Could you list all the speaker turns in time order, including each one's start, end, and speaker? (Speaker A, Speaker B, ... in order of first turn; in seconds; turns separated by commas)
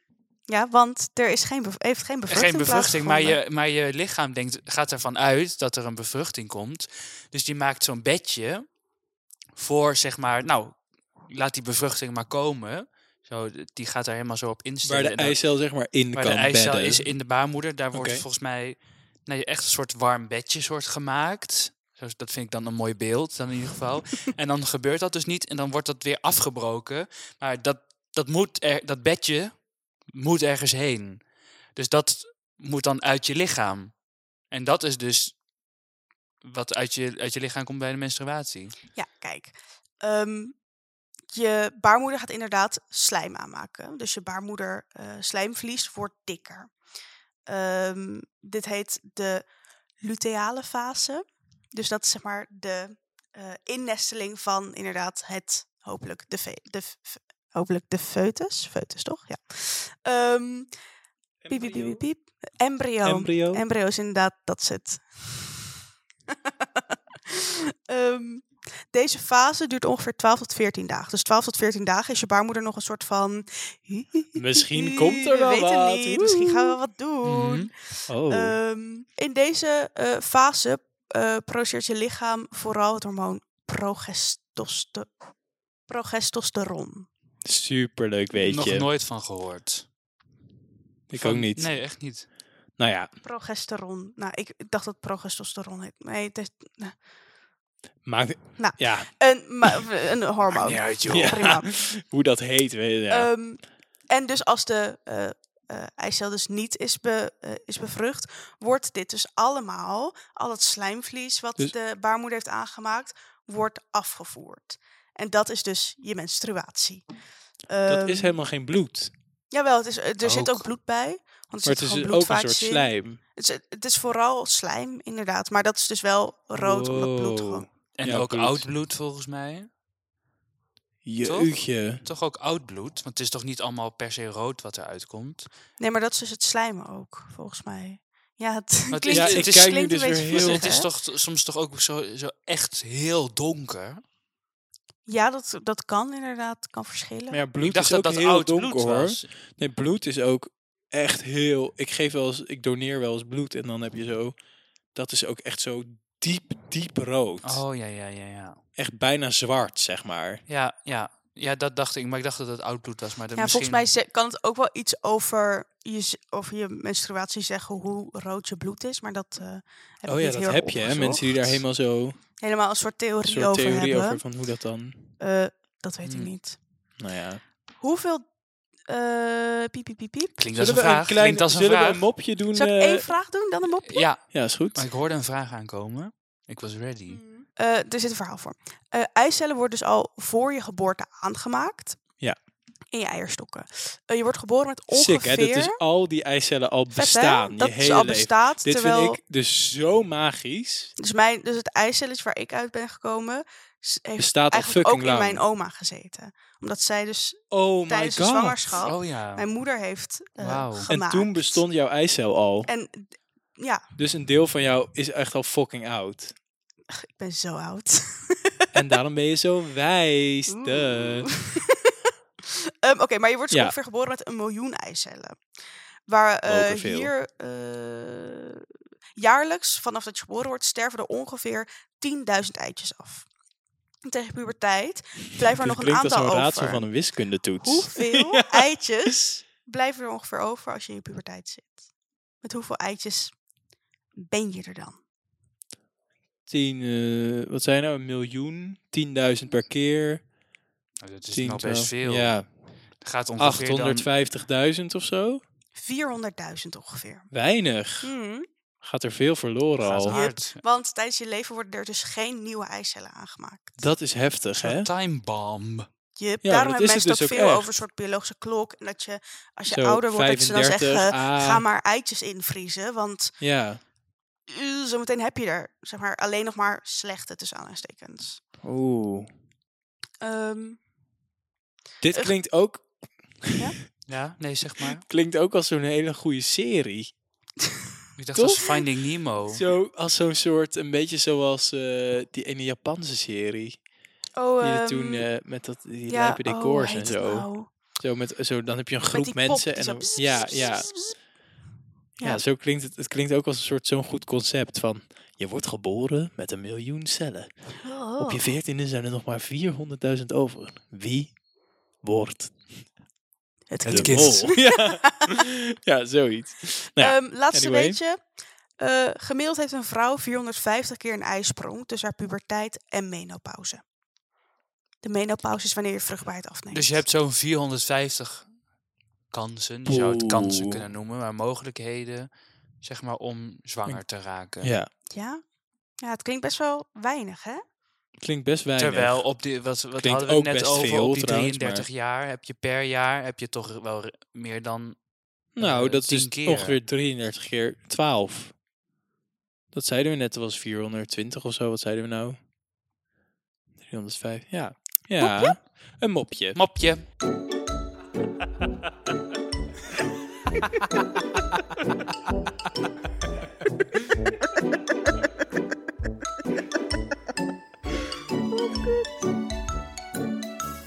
Speaker A: 0.5-3.4, Speaker B: 2.3-8.8, Speaker B: 9.5-15.4, Speaker C: 14.8-17.1, Speaker B: 16.1-35.4, Speaker C: 17.9-18.2, Speaker B: 36.4-38.7, Speaker A: 39.0-40.6, Speaker A: 41.3-46.7, Speaker A: 47.5-49.5, Speaker A: 50.0-60.7, Speaker C: 61.4-62.0, Speaker A: 61.5-65.7, Speaker C: 63.0-63.6, Speaker A: 66.3-85.1, Speaker C: 74.3-76.8, Speaker B: 77.2-77.7, Speaker C: 78.1-78.6, Speaker A: 85.9-87.1, Speaker C: 87.4-88.9, Speaker B: 88.3-89.9, Speaker C: 91.1-91.7, Speaker B: 91.1-92.3, Speaker C: 92.8-93.1, Speaker A: 93.2-97.0, Speaker C: 98.0-99.1, Speaker A: 98.6-101.8, Speaker C: 100.5-103.3, Speaker B: 100.7-101.3, Speaker A: 103.1-117.0, Speaker A: 117.7-118.3, Speaker C: 117.9-119.1, Speaker A: 119.5-127.7, Speaker B: 120.2-120.6, Speaker C: 121.6-123.2, Speaker C: 126.5-128.7, Speaker B: 128.0-129.7, Speaker C: 131.0-132.0, Speaker B: 131.2-135.5, Speaker A: 135.8-140.9, Speaker B: 138.9-144.0, Speaker C: 139.1-140.7, Speaker A: 145.1-147.4, Speaker C: 147.3-154.4, Speaker B: 147.6-149.3, Speaker C: 154.9-157.6, Speaker B: 157.4-158.6, Speaker C: 158.8-160.4, Speaker B: 160.5-163.9, Speaker A: 163.4-171.6, Speaker C: 170.1-172.2, Speaker A: 172.4-174.2, Speaker C: 173.2-175.0, Speaker A: 175.2-176.6, Speaker B: 176.0-176.3, Speaker C: 177.0-177.4, Speaker A: 177.8-178.2, Speaker A: 178.9-180.4, Speaker B: 180.4-182.0, Speaker C: 180.5-183.1, Speaker A: 182.5-184.1, Speaker B: 183.8-187.2, Speaker C: 184.3-184.8, Speaker A: 187.1-192.0, Speaker A: 192.9-195.8, Speaker C: 194.9-200.9, Speaker A: 196.9-199.2, Speaker A: 201.0-211.6, Speaker C: 204.2-205.4, Speaker C: 207.5-208.8, Speaker B: 208.8-209.4, Speaker B: 210.4-210.9, Speaker C: 210.9-212.7, Speaker A: 212.7-213.8, Speaker C: 214.0-216.4, Speaker A: 216.9-218.7, Speaker C: 218.7-221.3, Speaker A: 220.5-225.4, Speaker A: 226.1-233.3, Speaker C: 226.4-227.1, Speaker A: 234.1-236.9, Speaker C: 235.6-238.7, Speaker A: 237.6-241.8, Speaker A: 242.4-243.4, Speaker A: 244.2-245.0, Speaker C: 246.5-250.2, Speaker B: 251.0-252.3, Speaker C: 251.3-252.5, Speaker B: 253.0-254.1, Speaker C: 253.4-255.4, Speaker A: 255.7-257.3, Speaker C: 257.3-258.1, Speaker A: 258.0-258.5, Speaker C: 258.8-260.2, Speaker B: 259.8-260.6, Speaker A: 260.1-263.8, Speaker C: 263.8-264.9, Speaker B: 264.6-265.9, Speaker A: 266.2-273.4, Speaker C: 266.4-267.7, Speaker C: 269.7-271.6, Speaker C: 273.4-273.8, Speaker A: 274.5-278.4, Speaker C: 278.6-279.3, Speaker A: 280.2-280.8, Speaker C: 282.0-282.9, Speaker C: 283.4-283.7, Speaker B: 284.1-285.0, Speaker C: 284.8-287.1, Speaker B: 288.2-289.6, Speaker C: 288.3-288.8, Speaker C: 289.4-293.8, Speaker A: 294.4-295.3, Speaker C: 294.6-300.9, Speaker A: 296.1-297.7, Speaker A: 299.1-301.1, Speaker C: 302.2-307.5, Speaker A: 307.8-308.4, Speaker C: 308.2-311.4, Speaker C: 312.0-312.8, Speaker A: 313.7-315.3, Speaker B: 313.8-314.5, Speaker C: 313.9-318.0, Speaker A: 317.0-318.2, Speaker A: 318.8-323.8, Speaker A: 325.0-327.0, Speaker B: 326.7-328.5, Speaker B: 329.3-332.3, Speaker C: 329.9-330.8, Speaker B: 332.8-334.7, Speaker C: 334.6-334.9, Speaker A: 335.1-335.4, Speaker A: 336.0-337.6, Speaker C: 338.2-339.2, Speaker B: 338.8-345.0, Speaker C: 340.0-341.9, Speaker C: 345.6-348.6, Speaker B: 345.6-346.8, Speaker C: 349.7-352.4, Speaker C: 353.8-356.6, Speaker A: 355.2-355.6, Speaker B: 356.6-357.0, Speaker A: 368.6-369.1